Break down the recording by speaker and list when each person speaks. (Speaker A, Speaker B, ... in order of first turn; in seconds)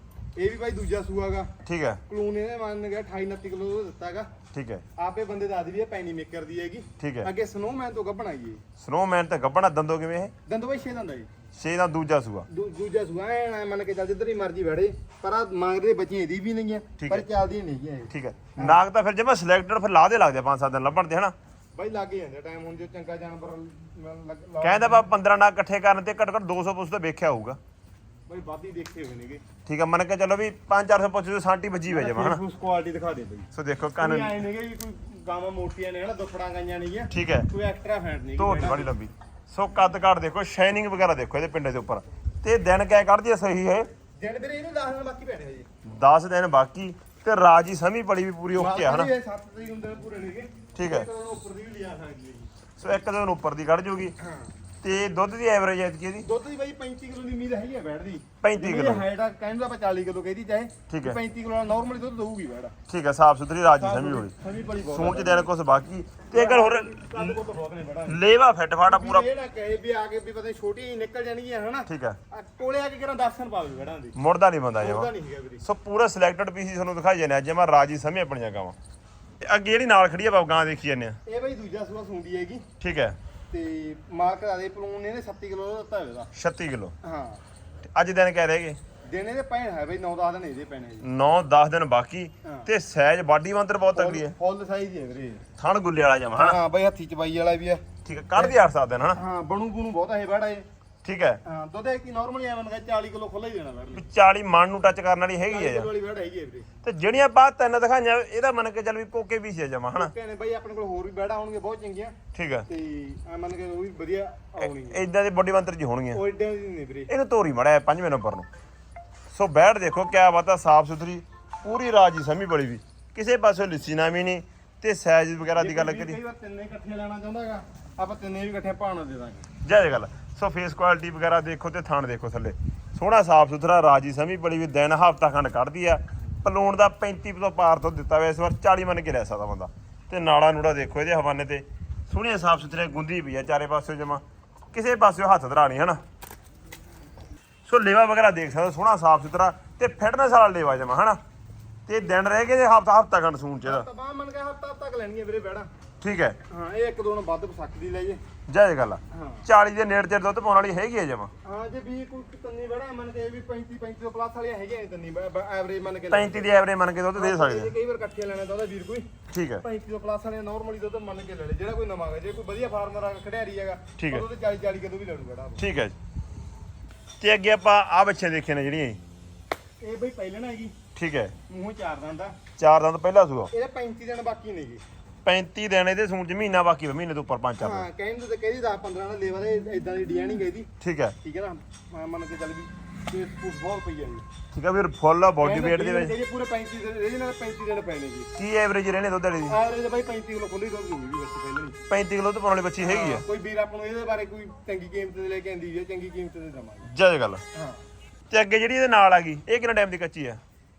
Speaker A: 0.3-1.5, 2.1-4.3, 5.0-8.6, 10.4-11.3, 12.5-18.8, 21.7-25.1, 28.3-29.4, 31.9-38.9, 44.2-45.7, 48.5-52.6, 54.2-54.5, 56.2-62.8, 63.8-65.5, 66.3-68.2, 68.8-74.2, 74.8-75.6, 81.2-82.7, 83.5-86.3, 87.0-87.4, 89.0-91.0, 92.4-92.7, 93.9-95.4, 96.3-98.5, 99.1-100.7, 101.4-104.0, 105.5-106.7, 110.0-112.2, 112.7-115.0, 116.1-117.1, 125.5-129.5, 153.6-155.7, 156.5-158.2, 159.1-159.4, 161.4-166.5, 167.1-169.1, 169.6-175.6, 179.8-180.8, 181.5-182.3, 183.5-184.8, 187.6-190.7, 191.2-194.2, 195.4-198.3, 199.5-201.8, 202.8-206.9, 207.5-207.8
Speaker B: 1.6-2.0, 4.5-4.8, 7.0-7.3, 8.8-10.3, 11.5-12.5, 17.0-17.2, 18.1-21.3, 24.6-27.6, 29.6-32.4, 33.5-34.3, 37.1-37.5, 38.4-43.9, 45.8-49.1, 50.7-51.1, 52.8-54.1, 54.8-56.3, 58.4-59.0, 60.9-61.2, 62.9-64.3, 64.8-67.3, 68.1-69.3, 71.9-72.2, 74.1-75.1, 75.6-78.8, 79.4-81.2, 82.8-83.2, 86.3-86.9, 87.9-88.8, 91.0-94.3, 95.6-96.6, 98.0-99.2, 101.0-101.4, 103.9-105.9, 106.8-110.1, 112.3-112.7, 114.6-116.2, 117.1-118.5, 119.3-126.2, 129.6-146.0, 147.7-151.2, 151.9-153.8, 156.0-156.4, 158.5-161.3, 166.1-167.7, 169.3-169.6, 174.0-174.2, 175.6-175.9, 177.2-179.0, 180.9-181.3, 182.6-183.5, 185.2-187.8, 190.8-191.1, 194.5-196.1, 198.3-199.6, 201.9-203.2, 206.8-207.4, 208.3-210.4